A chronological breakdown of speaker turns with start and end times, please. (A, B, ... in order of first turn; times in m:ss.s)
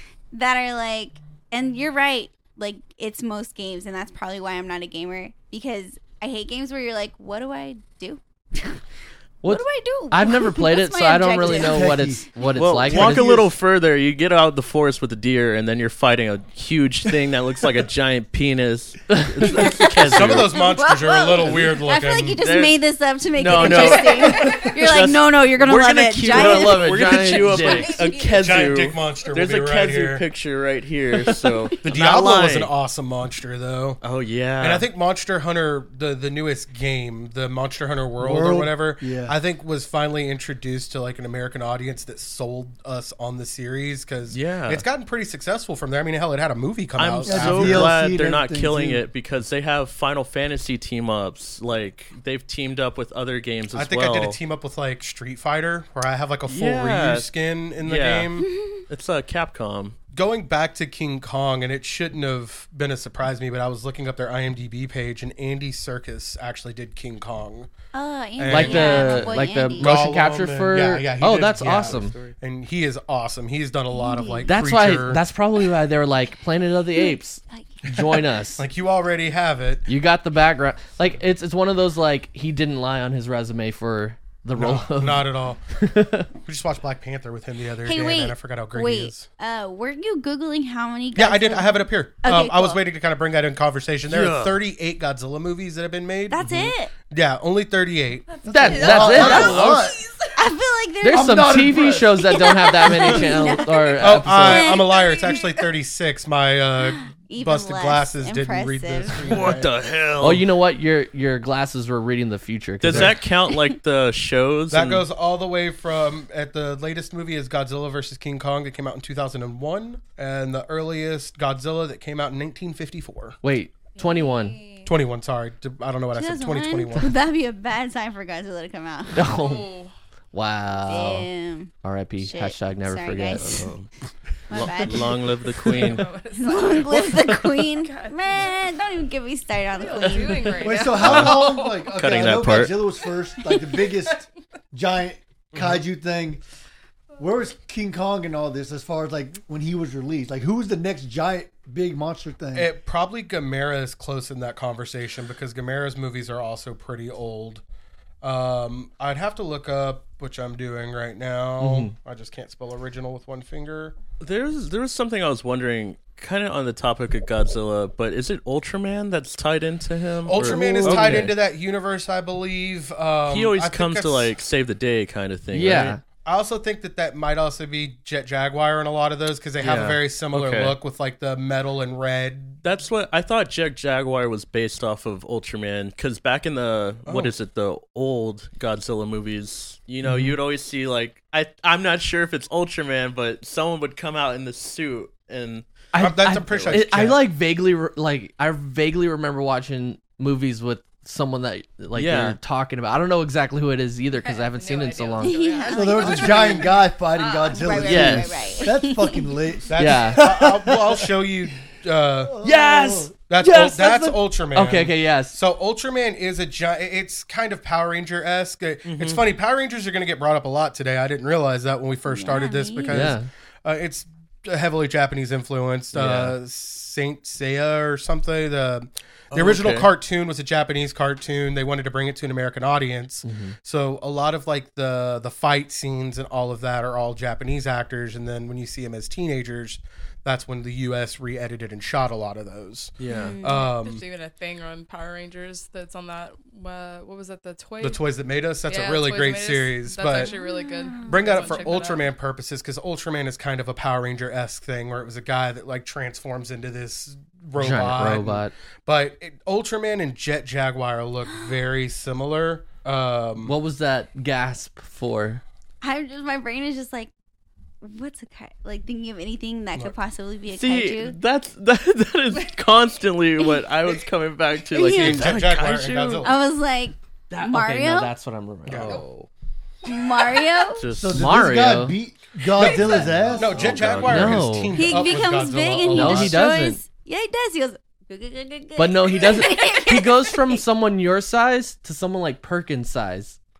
0:00.3-0:08.8 A
0:09.4-0:13.4 B
0:09.4-0:12.6 A
0:11.4-0:12.3 C
0:12.5-0:20.5 D
0:19.1-0:19.7 B
0:19.5-0:28.4 A
0:20.1-0:22.4 E
0:22.4-0:22.8 D
0:23.3-0:32.7 D
0:24.0-0:24.8 F
0:26.2-0:28.1 B
0:28.3-0:30.2 E
0:31.8-0:34.0 E
0:34.0-0:34.8 D
0:34.6-0:48.0 E
0:38.2-0:39.3 C
0:44.3-0:44.8 D
0:47.0-0:54.4 D
0:47.2-0:49.0 C
0:53.7-0:58.5 E
0:56.5-0:57.3 D
0:57.8-0:58.3 D
0:58.4-0:58.8 A
0:58.9-1:00.0 D
1:00.1-1:07.7 E
1:07.9-1:09.9 A
1:08.4-1:15.2 E
1:08.5-1:12.2 B
1:11.6-1:12.3 D
1:13.9-1:14.6 A
1:14.5-1:18.6 B
1:17.0-1:17.8 A
1:18.5-1:19.9 E
1:19.9-1:26.3 B
1:24.6-1:25.6 E
1:26.4-1:29.3 E
1:27.8-1:32.8 A
1:31.1-1:36.4 E
1:34.1-1:34.6 D
1:36.3-1:36.9 A
1:37.1-1:39.4 E
1:38.3-1:40.4 F
1:38.4-1:39.8 B
1:38.6-1:40.0 C
1:40.4-1:41.6 A
1:41.0-1:44.8 B
1:41.1-1:42.2 C
1:42.2-1:45.3 A
1:43.3-1:43.9 F
1:44.0-1:49.7 E
1:44.8-1:45.6 F
1:46.8-1:49.5 A
1:49.3-1:50.4 D
1:50.2-1:53.2 B
1:52.8-1:55.0 D
1:52.9-1:53.1 E
1:54.7-2:03.4 E
2:03.4-2:04.6 B
2:03.9-2:04.9 F
2:04.8-2:07.1 E
2:06.1-2:09.2 A
2:09.1-2:09.6 B
2:09.3-2:09.9 F
2:10.3-2:11.3 B
2:10.9-2:13.7 A
2:11.8-2:13.7 B
2:13.3-2:13.9 D
2:14.5-2:15.3 A
2:14.5-2:16.1 D
2:15.7-2:16.0 B
2:15.8-2:18.7 F
2:16.4-2:20.5 A
2:19.7-2:22.2 F
2:20.6-2:26.4 C
2:20.9-2:22.7 D
2:23.0-2:24.2 F
2:25.5-2:25.8 E
2:27.2-2:32.7 C
2:32.5-2:37.6 E
2:38.2-2:44.0 E
2:41.6-2:41.9 B
2:44.2-2:51.3 D
2:50.3-2:54.3 E
2:50.5-2:50.8 C
2:50.5-2:51.3 B
2:53.3-2:56.0 D
2:55.5-2:56.0 B
2:56.2-3:02.6 E
2:59.6-3:00.7 D
3:02.6-3:15.7 D
3:07.0-3:07.3 E
3:10.0-3:10.4 B
3:15.9-3:25.4 B
3:16.0-3:17.2 E
3:16.5-3:16.8 D
3:21.9-3:22.4 D
3:24.1-3:28.0 F
3:25.2-3:26.7 A
3:25.7-3:31.1 C
3:27.5-3:29.3 A
3:27.8-3:28.3 D
3:29.7-3:32.4 E
3:29.8-3:30.2 B
3:32.3-3:33.1 C
3:32.4-3:35.4 B
3:33.3-4:04.0 E
3:38.8-3:39.2 D
3:42.1-3:43.1 A
3:42.9-3:43.3 B
3:45.9-3:46.3 B
3:49.3-3:49.9 D
3:53.2-3:53.5 B
4:03.0-4:03.4 D
4:03.1-4:03.7 A
4:03.6-4:08.0 F
4:07.8-4:10.3 E
4:08.7-4:12.0 F
4:10.2-4:11.6 A
4:11.0-4:23.5 E
4:17.6-4:18.5 B
4:23.4-4:25.4 B
4:25.8-4:27.1 A
4:27.8-4:31.1 A
4:30.4-4:36.3 D
4:34.7-4:35.4 A
4:34.8-4:36.4 E
4:36.2-4:38.1 A
4:37.3-4:39.0 B
4:38.7-4:39.0 E
4:38.7-4:39.3 D
4:39.8-4:40.8 A
4:40.7-4:41.3 D
4:41.0-4:43.6 C
4:41.1-4:42.0 B
4:42.6-4:46.4 E
4:42.6-4:43.2 F
4:42.8-4:44.6 D
4:44.0-4:45.0 B
4:44.7-4:50.6 A
4:45.9-4:46.8 B
4:48.8-4:53.4 B